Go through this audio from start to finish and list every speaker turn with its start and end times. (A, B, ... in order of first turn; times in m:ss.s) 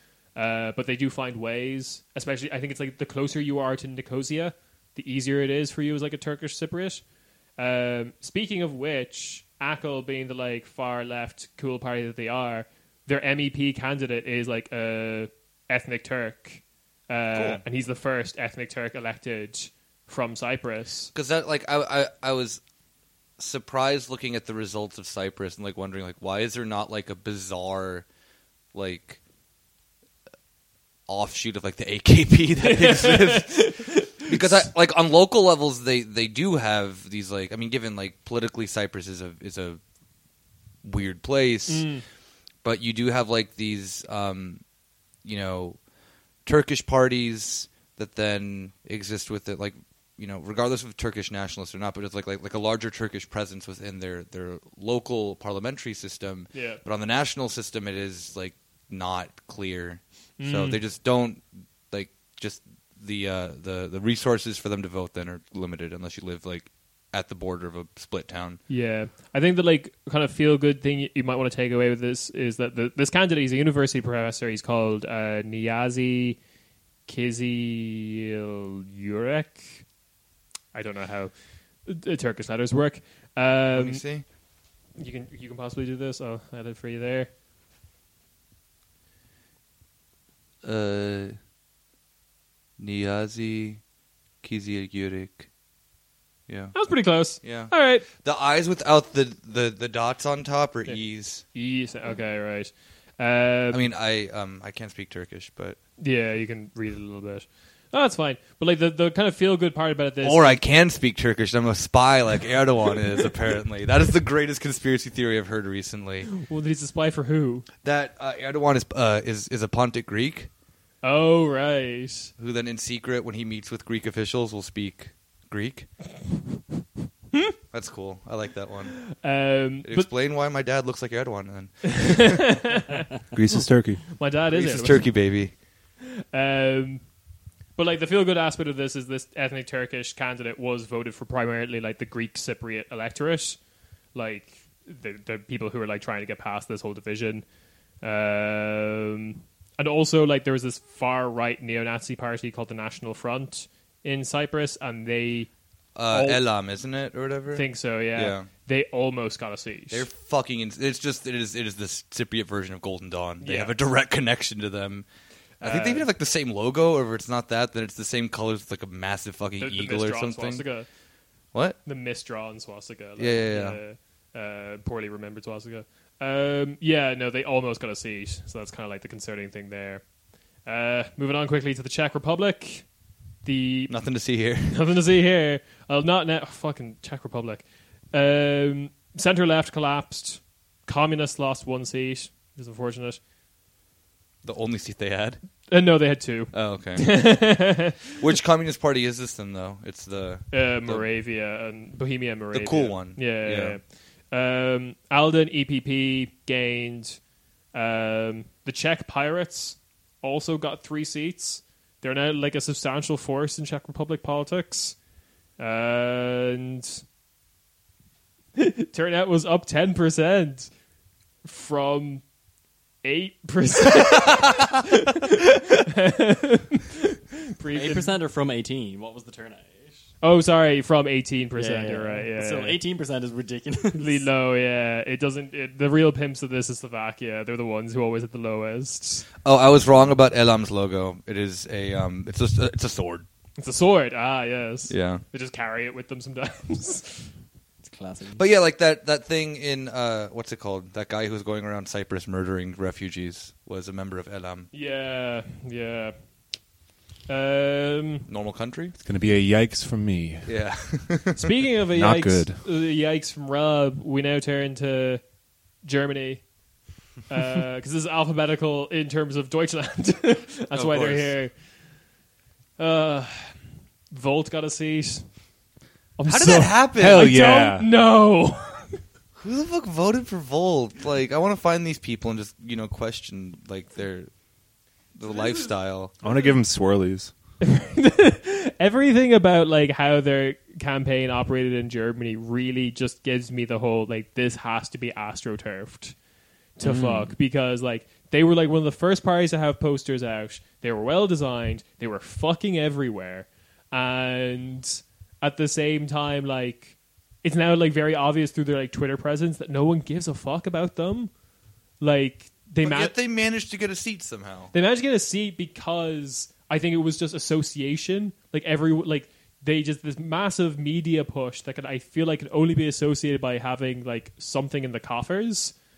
0:00.4-0:07.0 A
0:07.6-0:21.1 A
0:17.3-0:17.6 B
0:21.1-0:22.6 B
0:23.4-0:28.1 B
0:28.7-0:29.2 B
0:31.1-0:33.7 B
0:32.6-0:34.6 A
0:34.3-0:39.8 B
0:40.8-0:41.9 B
0:41.7-0:42.0 A
0:42.6-0:44.6 B
0:45.2-0:45.8 B
0:46.4-1:08.6 B
0:56.5-0:56.8 A
1:00.4-1:00.8 A
1:08.7-1:16.4 A
1:17.1-1:19.8 A
1:20.7-1:21.3 A
1:21.8-1:24.0 A
1:23.7-1:24.2 B
1:25.0-1:27.3 A
1:30.6-1:31.4 B
1:32.8-1:33.8 B
1:34.4-1:35.5 B
1:36.5-1:36.8 B
1:36.7-1:38.1 A
1:37.4-1:41.4 B
1:41.5-1:43.8 A
1:43.7-1:45.8 B
1:46.0-1:50.6 A
1:50.2-1:56.3 B
1:56.3-1:57.7 A
1:57.8-2:00.5 B
2:01.0-2:02.3 A
2:02.4-2:06.1 B
2:07.7-2:09.1 B
2:09.0-2:10.1 A
2:09.8-2:12.6 B
2:11.9-2:13.0 A
2:13.3-2:14.1 C
2:14.2-2:15.2 A
2:14.5-2:15.6 B
2:16.2-2:17.0 A
2:17.8-2:23.6 A
2:24.1-2:27.4 A
2:28.0-2:35.5 A
2:36.0-2:38.5 B
2:36.1-2:36.4 A
2:37.5-2:40.1 A
2:39.9-2:45.1 B
2:43.4-2:43.7 A
2:45.6-2:46.1 A
2:45.6-2:50.6 B
2:49.6-2:50.9 A
2:51.9-3:00.0 A
2:53.2-2:53.8 B
3:00.6-3:02.9 A
3:03.4-3:04.0 A
3:03.9-3:04.8 B
3:04.6-3:13.2 A
3:14.4-3:15.4 B
3:15.7-3:18.1 A
3:16.5-3:17.6 B
3:18.2-3:21.1 B
3:20.5-3:27.2 A
3:22.5-3:23.8 B
3:27.7-3:35.0 A
3:35.6-3:37.0 A
3:38.6-3:40.7 A
3:41.4-3:42.2 A
3:43.0-3:48.2 A
3:47.7-3:50.0 D
3:50.2-3:52.8 A
3:51.6-3:54.3 D
3:53.9-3:59.3 A
3:59.4-4:03.3 B
4:03.6-4:07.3 A
4:04.9-4:05.2 B
4:07.8-4:08.4 D
4:08.4-4:14.7 B
4:14.7-4:16.2 A
4:17.3-4:18.3 A
4:18.3-4:19.0 B
4:19.0-4:20.5 C
4:20.4-4:21.5 B
4:21.4-4:25.2 A
4:22.0-4:22.6 C
4:25.8-4:26.5 A
4:27.3-4:31.6 A
4:30.7-4:31.3 B
4:32.8-4:33.6 A
4:34.1-4:35.3 A
4:36.2-4:39.0 A
4:36.3-4:37.3 B
4:36.9-4:37.9 C
4:39.4-4:44.3 B
4:45.2-4:46.1 B
4:45.4-4:45.7 A
4:46.2-4:47.3 C
4:47.6-4:56.2 A
4:56.8-5:11.3 A
4:56.8-4:57.3 D
5:12.0-5:13.2 A
5:12.8-5:14.7 B
5:14.7-5:25.8 A